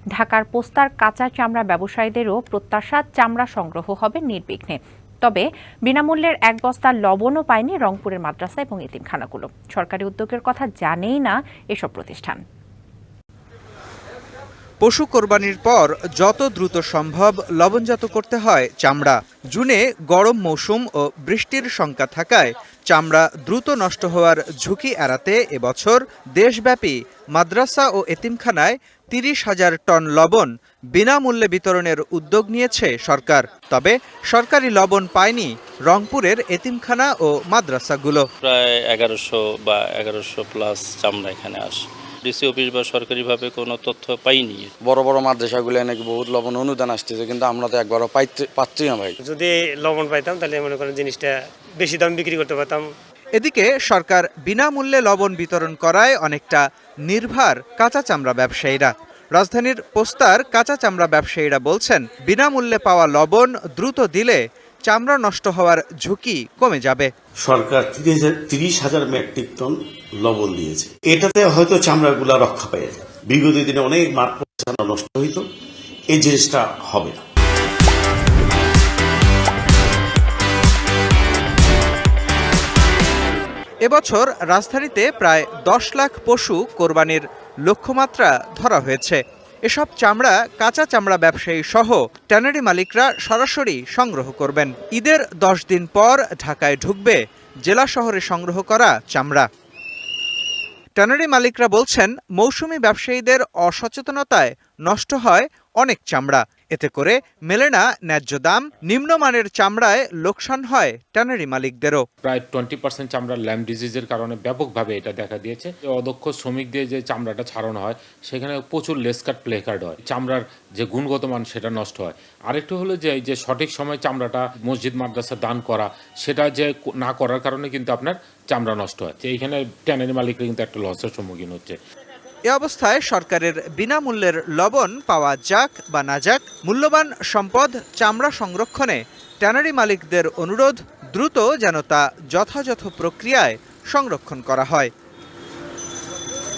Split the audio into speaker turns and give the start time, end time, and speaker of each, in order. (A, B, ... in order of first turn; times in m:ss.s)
0:00.2-0:12.4 A
0:14.8-0:38.2 B
0:38.4-0:44.7 C
0:44.8-0:49.1 D
0:49.2-0:52.9 E
0:53.4-1:07.1 B
1:07.4-1:15.4 F
1:16.2-1:17.2 F
1:23.8-1:39.5 B
1:41.0-1:52.0 B
1:52.2-2:11.8 G
2:12.5-2:24.9 B